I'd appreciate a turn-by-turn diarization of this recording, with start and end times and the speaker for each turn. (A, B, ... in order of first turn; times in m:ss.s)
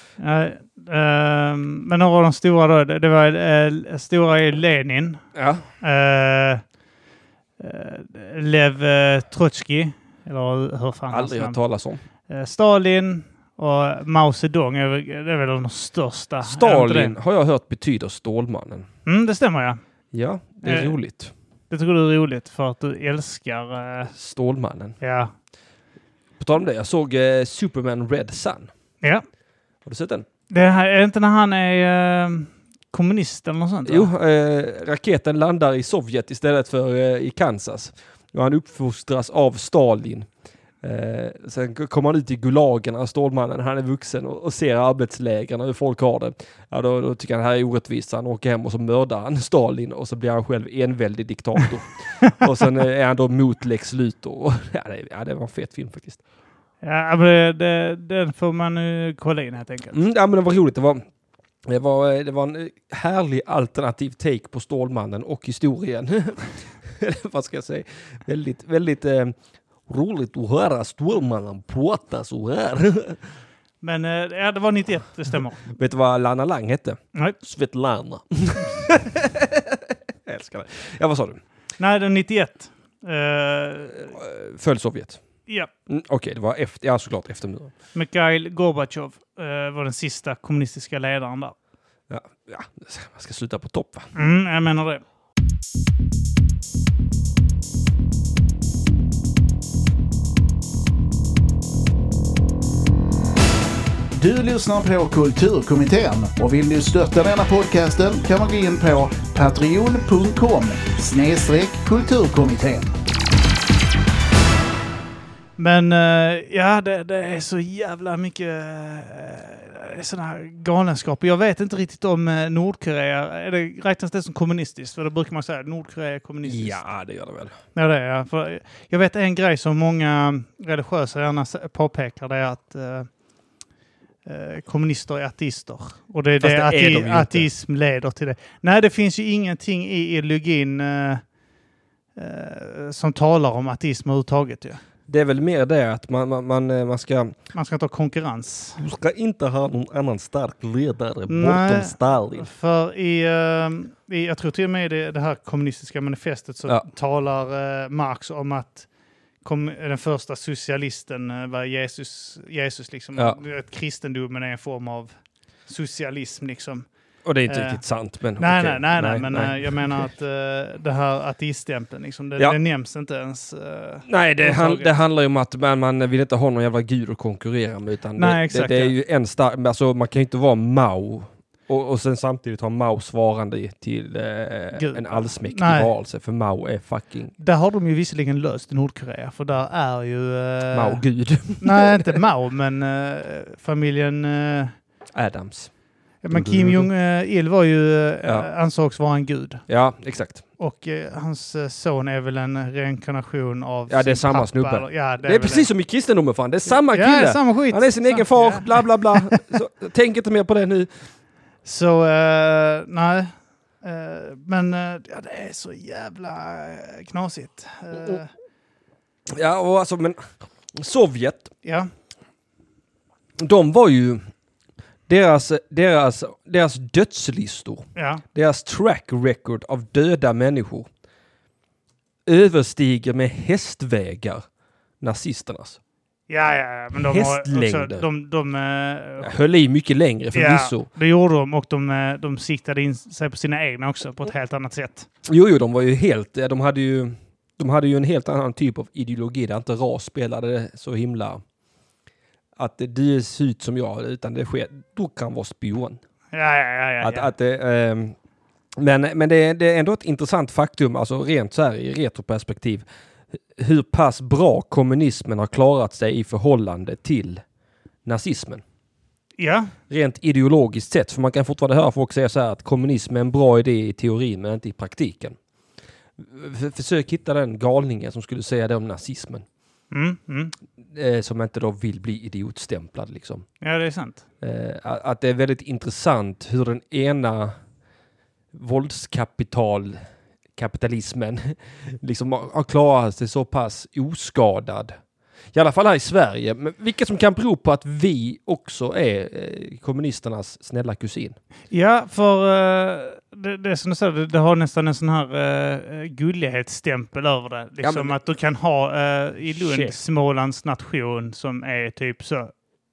0:00.2-0:05.2 A
0:05.4-0:05.7 B
0:05.8-0:06.6 A
0:07.6-0:11.6 A
0:11.1-0:12.0 B
0:12.3-0:17.2 A
0:16.4-0:18.9 B
0:19.1-0:19.8 A
0:20.1-0:21.3 B
0:20.6-0:21.0 A
0:21.7-0:24.1 A
0:24.1-0:25.0 B
0:25.0-0:25.3 A
0:26.4-0:28.7 B
0:29.8-0:30.3 B
0:30.5-0:34.1 A
0:33.9-0:40.3 B
0:40.8-0:56.2 B
0:56.8-1:00.0 A
0:59.9-1:01.0 B
1:01.6-1:09.4 B
1:09.9-1:13.2 B
1:13.8-1:15.7 A
1:15.7-1:21.4 B
1:21.8-1:24.1 A
1:24.1-1:25.2 B
1:25.9-1:27.7 B
1:28.0-1:31.6 A
1:32.1-1:34.1 B
1:34.2-1:35.0 A
1:44.2-1:52.9 C
1:55.6-2:06.8 A
2:06.4-2:07.6 B
2:07.8-2:13.1 A
2:14.2-2:21.2 A
2:16.4-2:17.5 B
2:22.2-2:24.8 A
2:25.1-2:27.4 B
2:27.5-2:28.8 A
2:28.8-2:32.5 B
2:31.3-2:38.9 A
2:39.4-2:45.1 A
2:45.7-2:46.9 A
2:47.2-2:50.1 B
2:47.5-2:47.8 A
2:48.4-2:54.9 A
2:54.1-3:07.3 B
2:58.2-2:58.9 A
3:04.7-3:05.9 A
3:07.4-3:11.0 A
3:10.7-3:12.1 B
3:11.6-3:14.7 A
3:15.1-3:15.7 B
3:16.2-3:19.6 A
3:16.3-3:16.9 B
3:19.7-3:20.4 B
3:20.6-3:25.7 A
3:23.9-3:30.9 B
3:26.7-3:29.4 A
3:31.6-3:38.3 A
3:39.3-3:41.5 B
3:41.6-3:41.9 A
3:43.4-3:44.2 B
3:45.1-3:50.9 B
3:48.0-3:48.2 A
3:52.3-3:54.4 B
3:55.0-3:55.8 B
3:56.3-3:59.3 A
3:57.0-3:58.1 B
3:59.2-4:00.9 B
4:00.3-4:05.1 A
4:05.2-4:11.4 B
4:12.6-4:16.0 B
4:16.3-4:17.3 A
4:17.0-4:18.2 B
4:18.8-4:22.8 B
4:23.6-4:27.4 B
4:28.0-4:28.6 B
4:29.4-4:29.7 A
4:29.9-4:35.4 B
4:36.2-4:39.4 B
4:39.9-4:40.5 A
4:40.9-4:43.5 B
4:43.6-4:44.2 A
4:44.4-4:47.6 B
4:48.5-4:50.0 B
4:50.6-4:55.0 B
4:55.5-5:01.4 B
5:01.7-5:12.5 A
5:07.8-5:08.2 B
5:09.6-5:10.0 B